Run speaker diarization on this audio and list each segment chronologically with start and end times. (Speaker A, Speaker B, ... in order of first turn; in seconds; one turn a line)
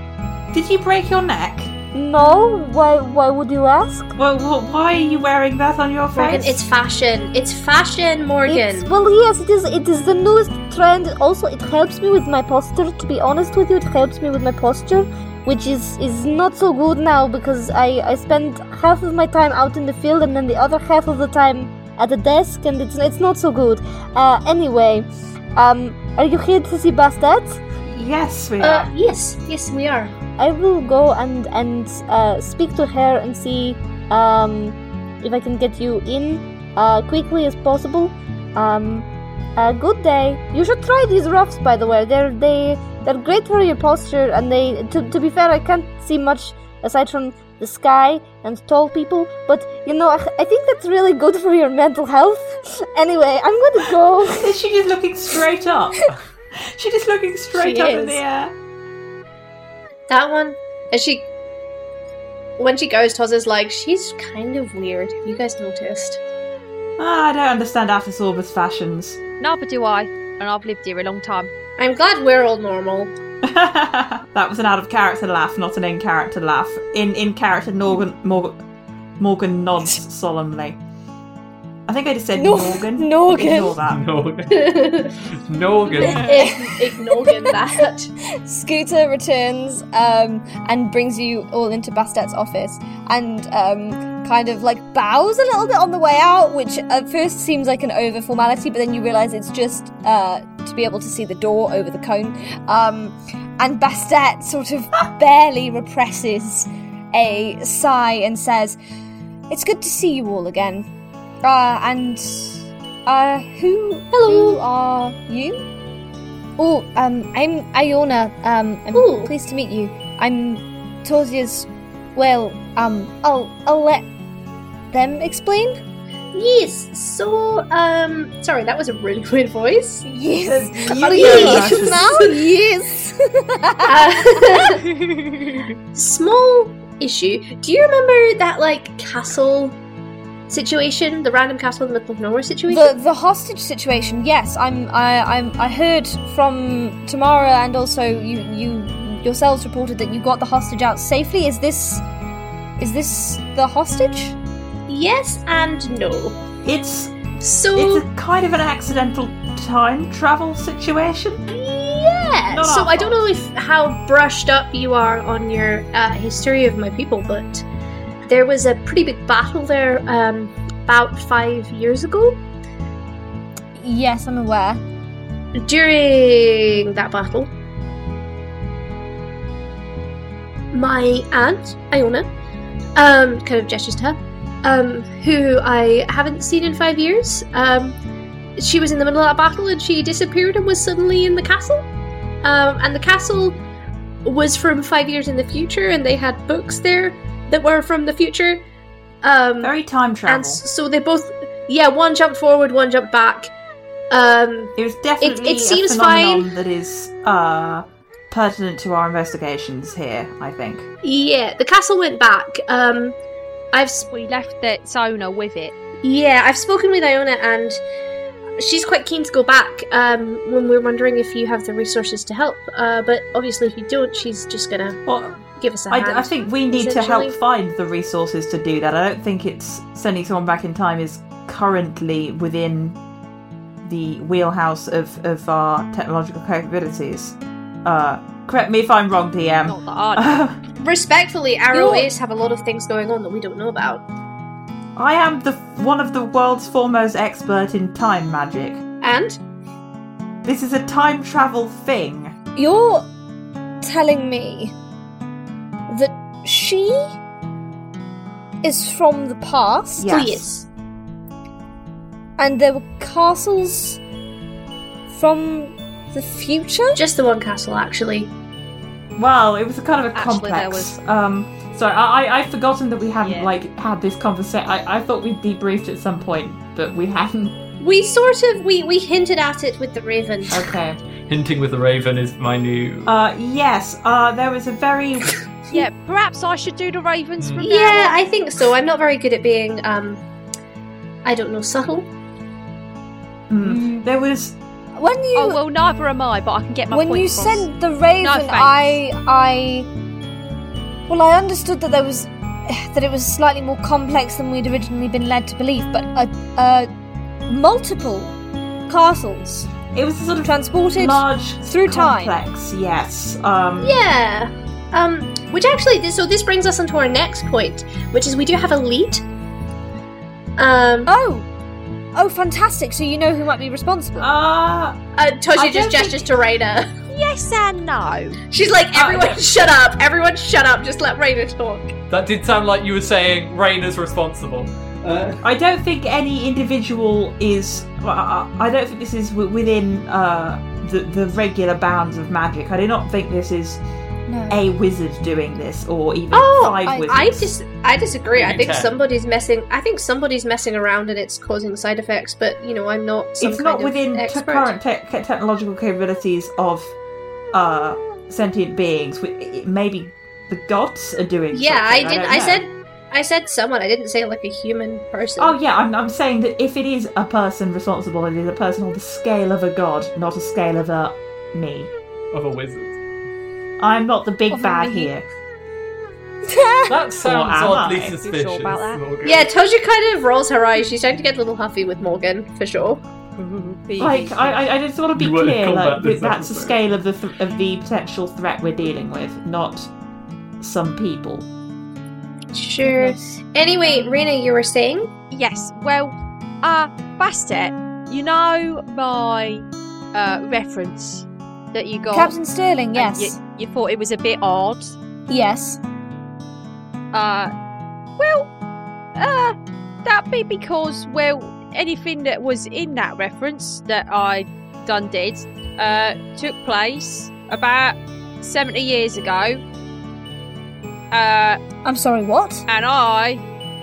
Speaker A: 0.5-1.7
Speaker B: 1.9-4.1
Speaker A: 4.2-6.7
Speaker C: 6.1-8.9
Speaker B: 8.4-27.6
Speaker A: 27.8-28.9
Speaker C: 28.6-30.1
Speaker B: 30.4-54.5
Speaker A: 54.3-58.5
Speaker C: 57.6-58.2
Speaker C: 60.1-61.3
Speaker C: 62.6-66.2
Speaker A: 67.0-69.2
Speaker D: 69.4-71.5
Speaker C: 71.8-73.1
Speaker A: 73.4-78.6
Speaker A: 79.2-80.8
Speaker A: 81.9-84.0
Speaker B: 82.3-83.8
Speaker E: 83.8-86.4
Speaker C: 84.5-85.1
Speaker C: 85.9-88.1
Speaker B: 86.1-87.5
Speaker B: 88.4-108.8
Speaker B: 109.5-110.9
Speaker B: 111.4-115.7
Speaker C: 114.1-114.6
Speaker B: 116.6-124.0
Speaker C: 118.9-119.3
Speaker B: 124.9-125.8
Speaker C: 126.3-130.0
Speaker B: 130.0-134.7
Speaker A: 130.5-132.1
Speaker C: 131.1-132.4
Speaker C: 133.8-134.9
Speaker D: 135.1-135.6
Speaker C: 135.9-139.8
Speaker C: 140.5-142.9
Speaker B: 142.7-152.0
Speaker B: 152.8-154.3
Speaker C: 154.9-156.4
Speaker A: 156.6-161.4
Speaker C: 157.4-158.0
Speaker C: 161.5-167.6
Speaker A: 162.5-163.3
Speaker C: 168.2-172.4
Speaker B: 173.8-174.8
Speaker C: 175.6-177.5
Speaker C: 180.7-182.3
Speaker C: 182.9-187.9
Speaker C: 188.6-191.9
Speaker C: 192.4-193.6
Speaker C: 194.2-198.6
Speaker C: 199.2-199.7
Speaker A: 199.6-200.6
Speaker C: 200.2-203.5
Speaker C: 204.1-206.5
Speaker A: 204.8-210.9
Speaker C: 211.0-213.1
Speaker C: 213.7-214.1
Speaker D: 214.1-215.7
Speaker C: 216.0-217.8
Speaker C: 218.6-225.0
Speaker A: 225.1-233.0
Speaker C: 225.6-227.3
Speaker A: 233.8-240.6
Speaker D: 239.7-240.4
Speaker C: 240.8-244.0
Speaker B: 241.7-242.1
Speaker A: 244.9-248.8
Speaker C: 249.0-249.4
Speaker A: 250.4-252.3
Speaker B: 252.6-253.1
Speaker B: 253.8-254.7
Speaker B: 255.9-257.1
Speaker B: 258.6-260.1
Speaker A: 260.0-260.5
Speaker C: 260.1-260.6
Speaker B: 262.4-264.0
Speaker B: 265.1-267.0
Speaker C: 266.9-268.3
Speaker A: 269.1-277.6
Speaker D: 270.1-270.9
Speaker D: 273.2-273.5
Speaker C: 277.8-280.6
Speaker A: 280.5-281.0
Speaker E: 281.3-283.1
Speaker A: 283.1-285.4
Speaker D: 285.7-288.2
Speaker E: 287.4-287.6
Speaker C: 287.6-290.2
Speaker C: 291.2-292.1
Speaker A: 293.5-294.6
Speaker B: 293.6-294.1
Speaker B: 294.9-295.6
Speaker D: 295.3-297.7
Speaker B: 296.9-299.9
Speaker D: 298.2-299.0
Speaker B: 301.1-306.9
Speaker B: 307.5-308.3
Speaker B: 308.9-309.7
Speaker A: 309.9-314.1
Speaker B: 310.4-312.4
Speaker C: 313.8-319.2
Speaker C: 320.6-321.1
Speaker B: 321.1-321.4
Speaker B: 322.1-324.3
Speaker A: 324.2-325.0
Speaker C: 325.1-326.9
Speaker A: 325.5-326.3
Speaker D: 327.1-328.4
Speaker C: 328.5-331.9
Speaker A: 328.9-329.4
Speaker E: 332.1-335.4
Speaker A: 335.4-343.8
Speaker B: 344.3-344.6
Speaker A: 344.5-347.6
Speaker C: 346.3-354.7
Speaker B: 346.9-347.2
Speaker E: 348.3-348.9
Speaker A: 353.4-356.9
Speaker A: 357.5-362.6
Speaker C: 361.5-365.5
Speaker A: 365.4-371.9
Speaker E: 372.3-372.9
Speaker A: 373.8-375.2
Speaker B: 374.5-375.1
Speaker B: 376.4-377.0
Speaker E: 376.9-379.5
Speaker A: 377.2-378.1
Speaker D: 378.2-379.0
Speaker C: 379.2-383.0
Speaker D: 383.4-384.6
Speaker A: 384.0-389.9
Speaker E: 385.2-386.8
Speaker A: 390.6-391.5
Speaker C: 392.5-395.1
Speaker D: 392.9-393.2
Speaker D: 393.9-394.1
Speaker D: 395.3-402.3
Speaker B: 402.1-403.4
Speaker D: 402.9-404.9
Speaker B: 405.3-405.8
Speaker D: 407.1-407.5
Speaker D: 408.2-408.5
Speaker D: 409.1-419.6
Speaker D: 421.1-421.6
Speaker B: 421.8-422.6
Speaker D: 422.7-423.4